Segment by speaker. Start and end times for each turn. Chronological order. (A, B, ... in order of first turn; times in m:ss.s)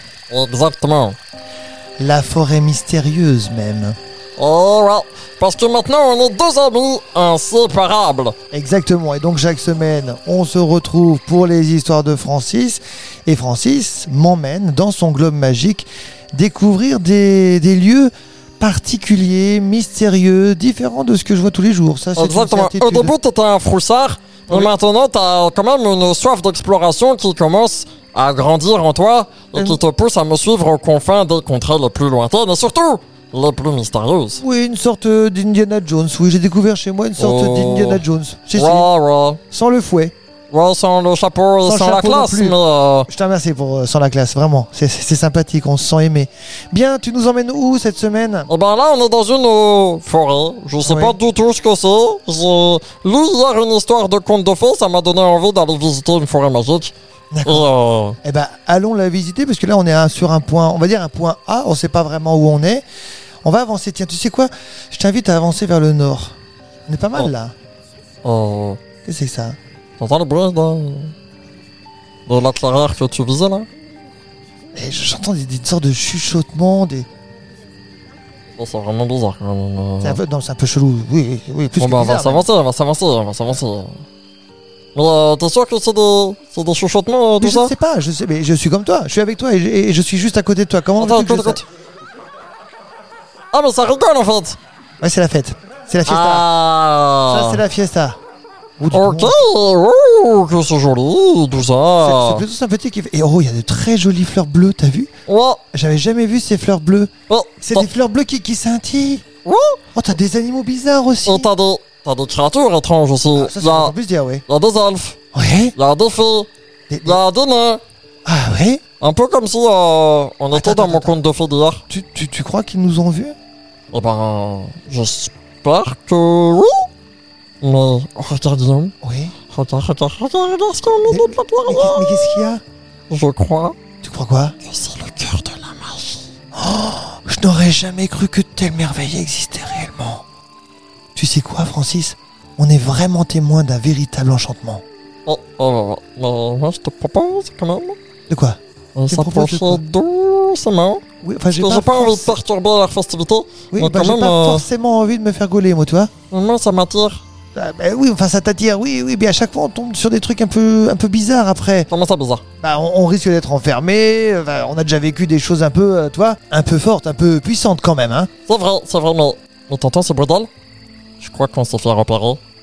0:00.3-0:01.2 A
0:02.0-0:04.0 B
0:04.4-0:08.3 A
0:08.5-0:23.1 B
0:22.2-0:34.4 A
0:29.5-0:29.8 B
0:34.4-0:38.9 B
0:37.2-0:38.0 A
0:38.5-0:39.4 A
0:39.5-0:40.1 B
0:40.5-0:43.1 A
0:41.6-0:48.5 B
0:48.5-0:56.9 A
0:50.8-0:51.2 B
0:57.3-0:57.7 B
0:57.4-0:58.2 A
0:58.2-1:02.8 B
1:03.4-1:06.3 B
1:06.9-1:07.5 B
1:08.2-1:08.8 A
1:09.0-1:09.6 B
1:10.0-1:11.1 A
1:12.3-1:13.7 A
1:14.7-1:17.1 B
1:18.6-1:20.2 A
1:20.0-1:22.5 B
1:21.8-1:24.0 A
1:24.9-1:27.7 A
1:27.4-1:31.6 B
1:31.0-1:31.6 A
1:33.5-1:34.6 A
1:35.0-1:36.5 B
1:36.0-1:37.6 A
1:37.3-1:38.2 B
1:38.8-1:39.4 B
1:38.9-1:42.4 A
1:42.0-1:45.1 B
1:45.3-1:45.6 A
1:45.7-1:49.2 B
1:47.3-1:47.9 A
1:49.4-1:49.8 A
1:49.9-1:51.5 B
1:51.2-1:53.9 A
1:53.3-1:54.4 B
1:54.5-1:55.2 A
1:55.3-1:55.7 B
1:55.8-1:56.5 A
1:56.9-1:57.2 B
1:57.0-1:57.8 A
1:58.2-1:58.8 B
1:59.0-2:01.8 A
2:00.5-2:01.2 B
2:01.9-2:03.4 B
2:03.9-2:06.9 A
2:07.6-2:08.9 A
2:09.0-2:09.3 B
2:09.5-2:12.6 A
2:11.0-2:12.6 B
2:13.1-2:13.8 A
2:14.0-2:14.5 B
2:14.6-2:16.3 A
2:16.5-2:20.2 B
2:21.1-2:24.8 B
2:25.2-2:28.0 A
2:28.3-2:28.6 B
2:29.0-2:34.7 A
2:29.1-2:29.8 B
2:31.2-2:32.3 B
2:33.7-2:36.1 B
2:36.3-2:37.2 A
2:37.5-2:41.9 B
2:41.9-2:42.4 A
2:42.6-2:48.3 B
2:48.5-2:50.5 A
2:51.2-2:52.4 A